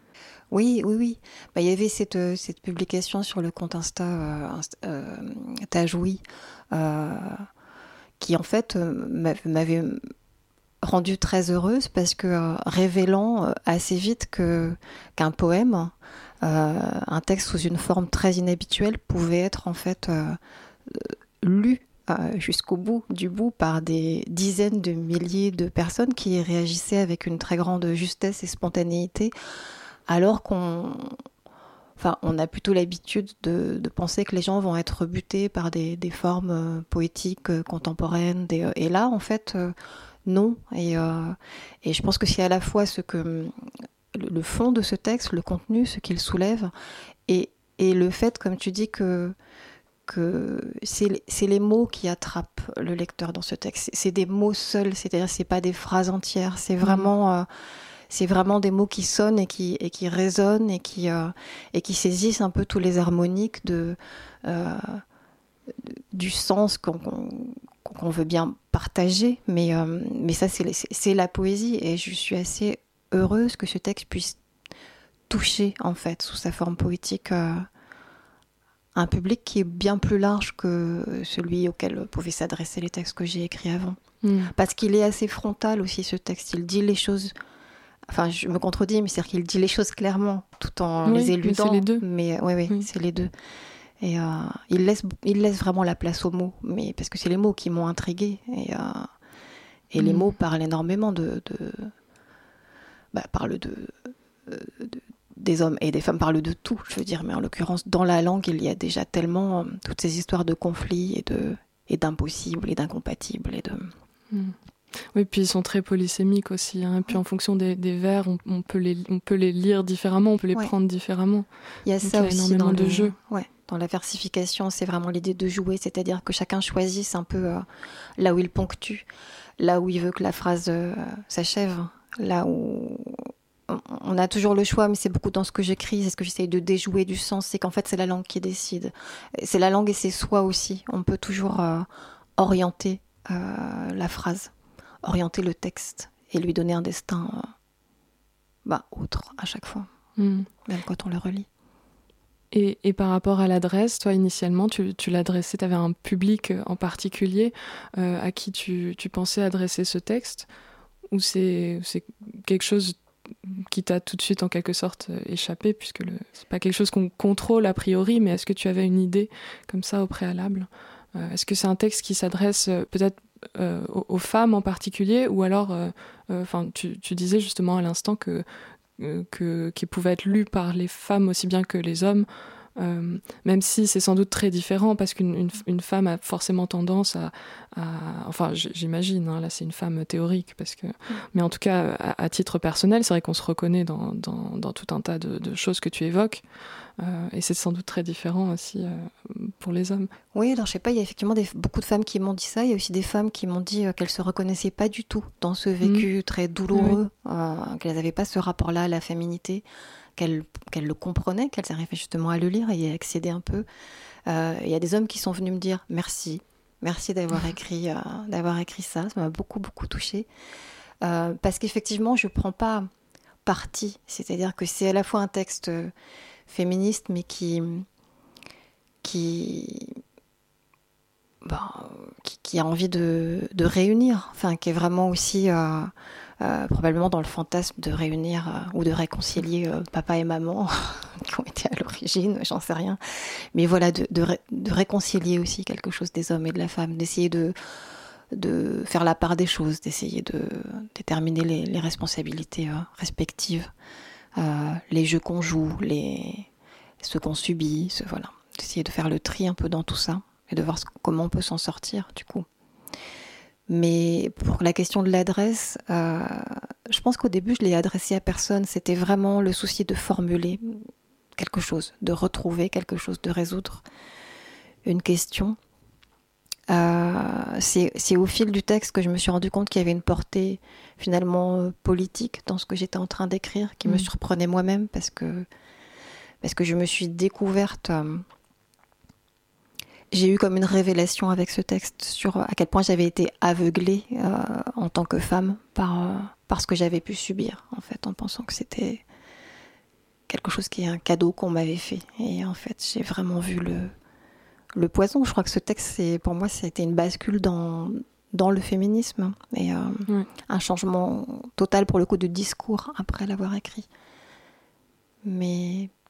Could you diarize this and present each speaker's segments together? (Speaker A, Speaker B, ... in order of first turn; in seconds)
Speaker A: 0.5-7.5, 8.2-10.0, 10.8-29.3, 30.1-31.1, 32.0-39.7, 40.2-43.5, 44.1-46.7, 47.3-49.3, 50.0-57.5, 58.1-65.0, 65.7-74.4, 75.3-77.7, 78.9-84.0, 84.5-87.3, 88.1-93.3, 94.0-99.1, 99.9-101.9, 103.1-113.9, 121.8-127.6, 128.2-129.1, 129.6-144.5, 145.0-147.5, 148.6-149.9, 150.6-151.5, 200.3-209.6, 210.2-213.7, 214.2-220.3, 221.0-222.9, 223.4-225.9, 226.5-227.8, 229.0-230.0, 231.4-243.0, 243.5-247.5, 248.3-253.7, 254.3-256.5, 257.0-262.4, 263.7-270.8, 271.4-273.8, 274.8-275.6, 276.7-285.5, 286.4-288.2, 290.1-299.0, 300.3-303.9, 304.7-313.9, 315.2-315.9
Speaker B: 56.8-57.1, 84.2-84.5, 91.0-92.0, 100.0-100.3, 115.1-121.5, 122.0-123.1, 150.2-150.5, 152.5-160.5, 161.1-178.4, 179.0-182.2, 182.8-196.4, 197.0-200.1, 205.8-206.1, 206.7-207.0